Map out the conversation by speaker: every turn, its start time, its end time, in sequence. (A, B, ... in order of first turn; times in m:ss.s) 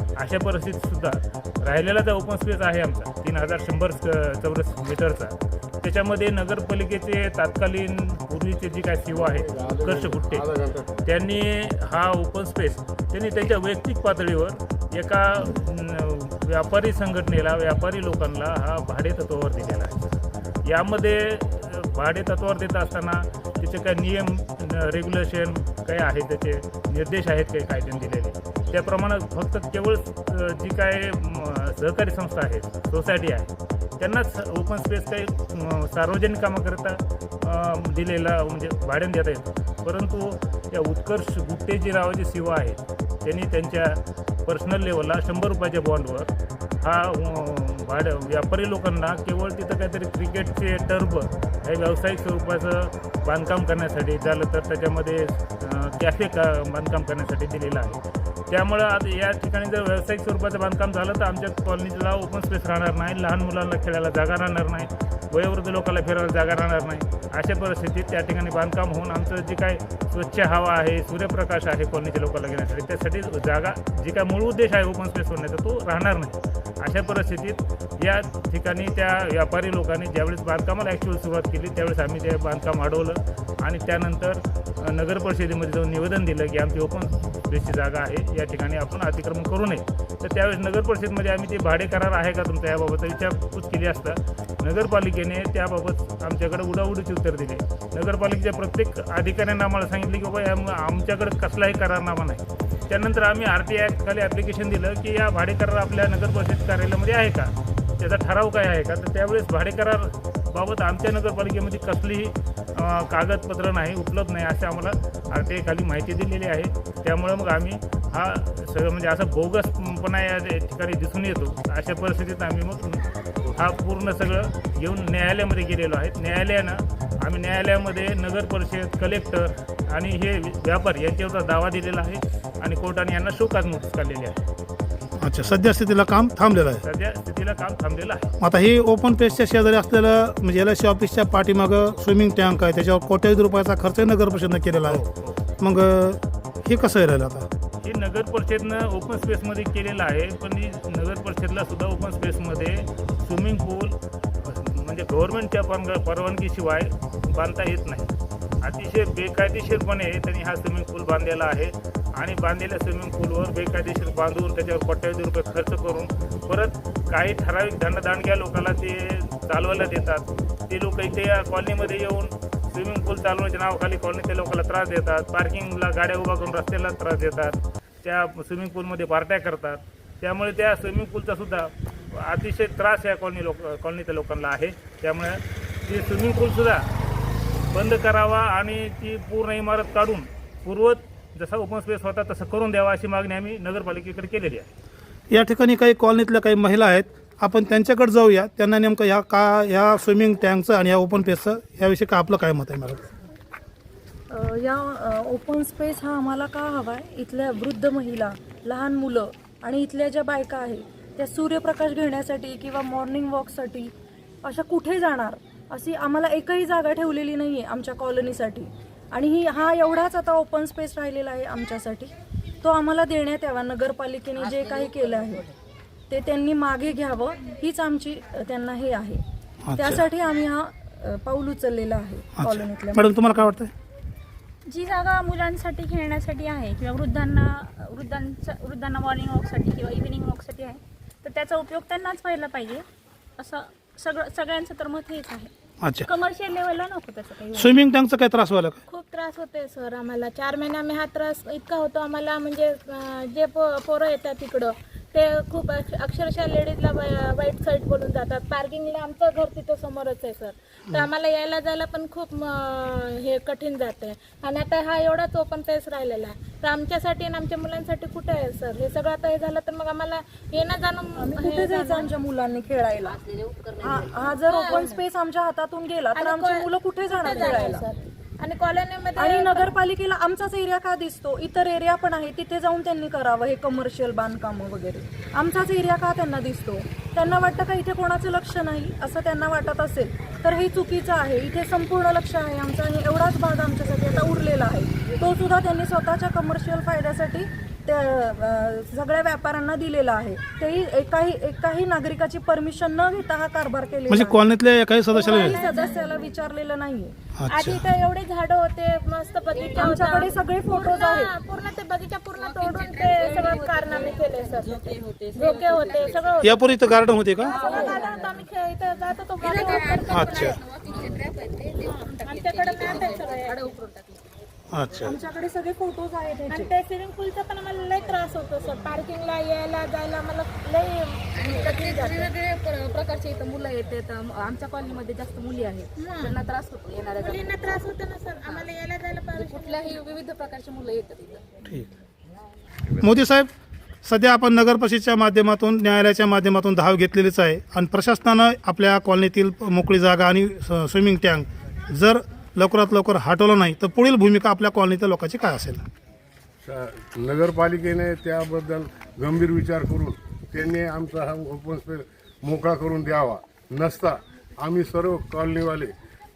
0:00.2-0:10.5 A
0:09.1-0:11.0 B
0:11.0-0:20.1 A
0:20.6-2:14.4 A
2:15.2-2:16.8 C
2:16.8-2:18.3 A
2:18.4-2:25.0 C
2:24.9-2:25.4 A
2:25.6-2:27.5 C
2:27.8-3:06.9 A
3:07.7-3:14.7 A
3:15.3-3:23.1 C
3:24.3-3:45.5 D
3:46.1-3:49.2 D
3:49.6-3:50.0 C
3:49.8-3:53.2 D
3:52.4-3:53.7 C
3:54.7-4:02.8 E
4:03.4-4:05.5 E
4:05.8-4:06.1 C
4:06.1-4:07.4 E
4:07.5-4:08.8 C
4:08.9-4:32.1 F
4:31.2-4:33.2 D
4:33.8-4:37.9 D
4:34.5-4:34.9 F
4:36.2-4:36.7 F
4:37.2-4:39.7 F
4:39.2-5:04.4 D
5:04.1-5:05.6 C
5:05.1-5:07.1 D
5:05.2-5:05.7 F
5:07.4-5:07.8 C
5:07.5-5:16.8 F
5:09.8-5:11.3 D
5:12.4-5:16.4 G
5:16.4-5:17.6 C
5:17.4-5:20.3 F
5:17.6-5:18.2 G
5:17.7-5:18.0 D
5:19.4-5:24.2 G
5:20.1-5:20.6 C
5:22.1-5:23.6 F
5:24.7-5:25.2 C
5:25.0-5:26.7 D
5:26.5-5:32.3 F
5:31.4-5:37.5 G
5:36.0-5:36.4 F
5:37.2-5:40.0 F
5:39.4-5:41.4 G
5:41.6-5:41.9 C
5:43.0-5:43.5 C
5:44.0-5:55.8 C
5:56.6-6:05.9 B